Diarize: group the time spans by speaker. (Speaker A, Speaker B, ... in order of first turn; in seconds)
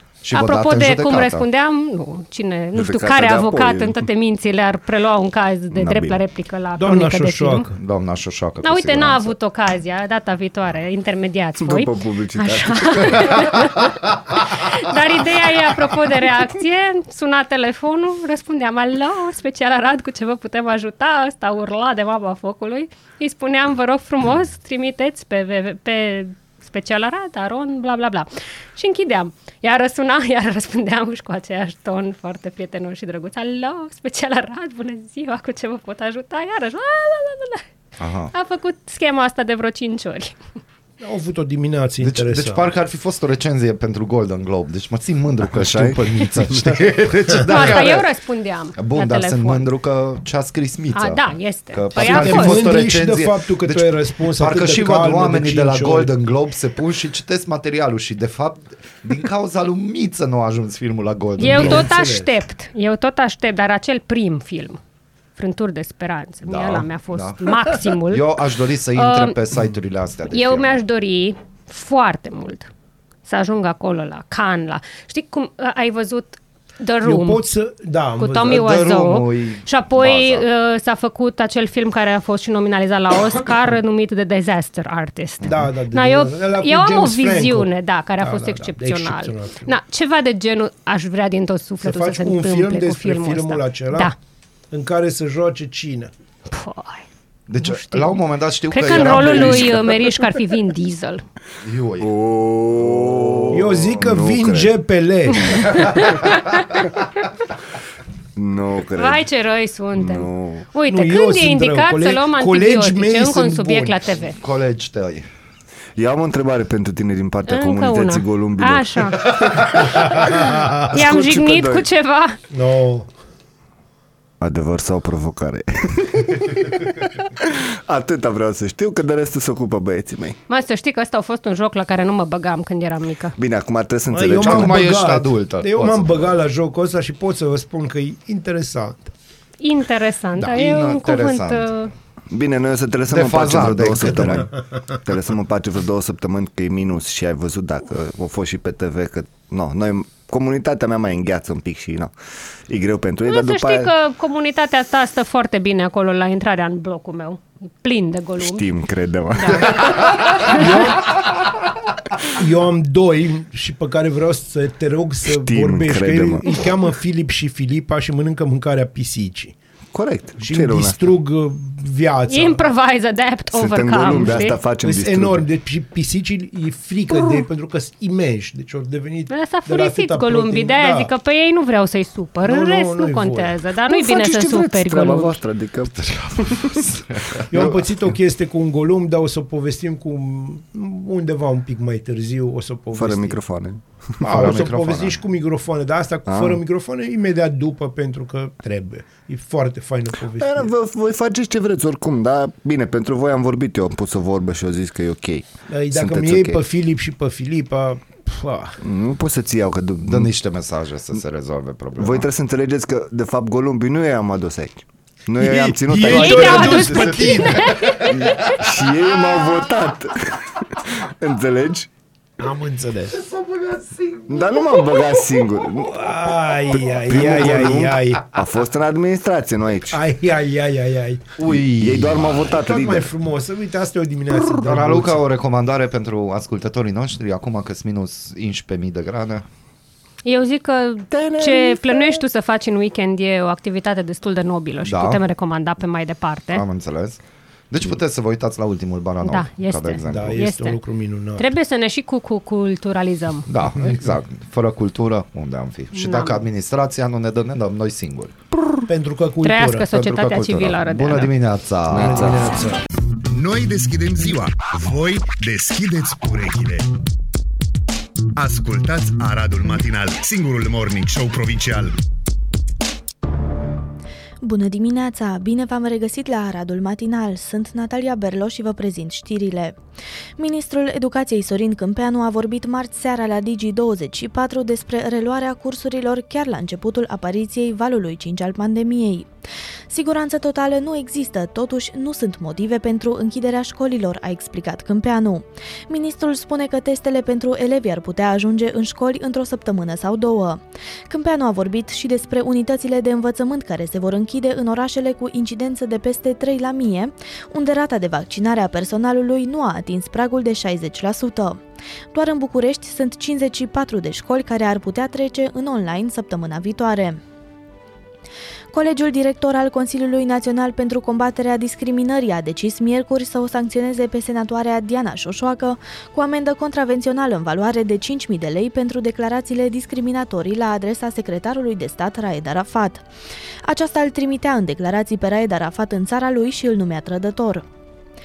Speaker A: 0.2-1.5, 7.8-9.4, 38.0-38.3, 42.0-48.1, 48.8-62.0, 66.4-70.8, 78.4-80.5, 97.5-100.3, 101.6-102.1, 114.4-115.2, 134.4-136.3, 140.4-141.8, 143.1-144.5, 186.0-187.4, 194.2-195.2, 210.0-212.3, 216.7-217.8, 223.2-224.3, 231.4-232.4, 234.5-239.4, 244.8-245.2, 246.5-247.2, 247.7-250.5, 253.5-258.4, 259.9-262.5
Speaker B: 0.3-7.7, 8.6-37.6, 38.3-40.4, 47.4-49.7, 50.9-52.7, 61.4-64.8, 65.3-68.3, 68.9-69.4, 70.3-72.7, 73.2-77.4, 78.2-94.1, 96.5-97.0, 97.6-98.2, 98.7-101.2, 108.9-114.3, 117.5-119.2, 120.9-122.4, 130.5-133.3, 139.6-141.9, 153.2-158.7, 159.4-160.8, 172.3-174.6, 179.3-185.4, 216.1-217.9, 240.2-246.6, 249.2-250.8, 251.4-253.5, 255.9-256.4, 259.4-261.3
Speaker C: 2.7-4.0, 5.7-6.2, 11.6-13.6, 45.4-46.6, 102.0-104.7, 108.3-109.2, 109.9-110.7, 116.0-121.9, 124.4-130.4, 133.4-134.8, 142.3-152.1, 152.7-153.9, 158.4-160.1, 165.3-166.5, 169.9-171.2, 173.5-175.4, 183.9-186.8, 192.9-194.3, 196.2-196.6, 200.3-206.6, 208.8-210.3, 212.0-217.2, 218.0-221.9, 224.3-226.0, 226.7-230.0, 231.5-233.1, 241.1-242.2
Speaker D: 6.8-7.7, 41.0-42.7, 52.0-56.1, 61.4-62.3, 77.0-78.6, 85.4-89.7, 91.8-94.1, 94.7-96.1, 103.5-105.8, 110.9-114.0, 120.5-120.8, 122.5-123.1, 134.1-139.1, 160.4-161.2, 162.3-169.5, 170.4-172.7, 174.1-181.1, 182.4-183.6, 187.5-193.4, 194.2-200.7, 205.7-208.8, 215.4-218.0, 222.4-223.2, 225.7-228.3, 229.9-231.3, 232.4-235.2, 250.1-251.5, 258.9-259.9, 261.9-262.8
Speaker E: 263.3-266.9, 268.4-271.9
Speaker F: 274.4-279.8, 280.4-289.3, 289.9-311.6, 312.1-317.2, 318.7-333.0, 333.6-337.6